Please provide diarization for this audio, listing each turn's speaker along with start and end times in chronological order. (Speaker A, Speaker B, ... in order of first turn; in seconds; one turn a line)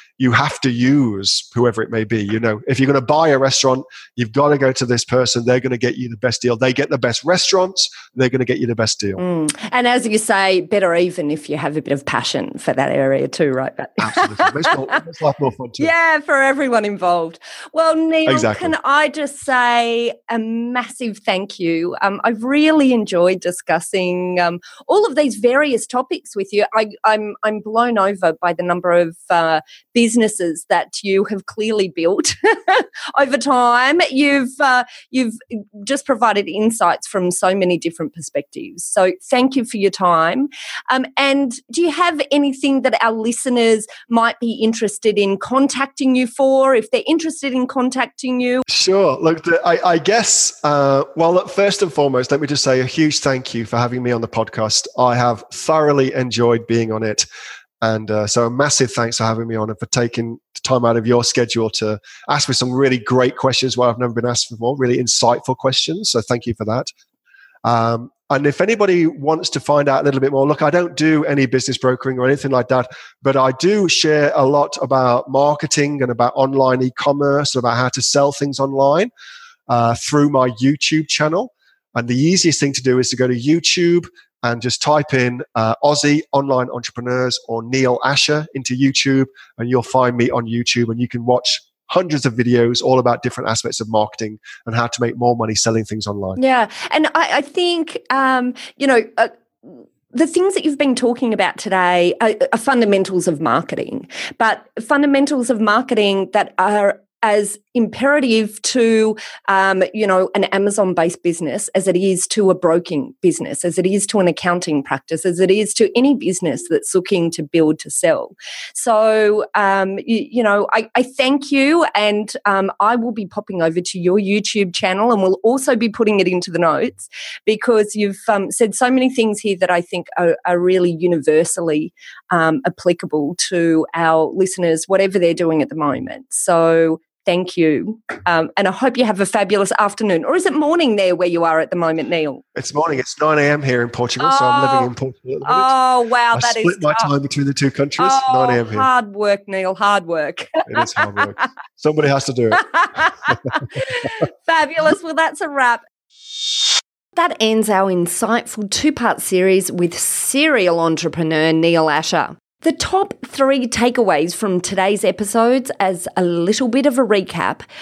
Speaker A: 0.2-9.2
Speaker B: 9.2-14.7
Speaker A: 14.0-15.9
Speaker B: 15.8-48.6
Speaker A: 18.2-18.7
Speaker A: 48.7-57.2
Speaker A: 57.8-66.9
Speaker A: 67.6-79.1
Speaker A: 79.7-96.4
Speaker B: 96.4-99.3
Speaker B: 100.1-142.4
Speaker A: 142.5-145.7
Speaker B: 144.2-144.9
Speaker B: 145.4-147.1
Speaker A: 146.3-148.9
Speaker B: 148.0-150.8
Speaker A: 150.7-152.7
Speaker B: 153.3-155.8
Speaker B: 157.1-167.6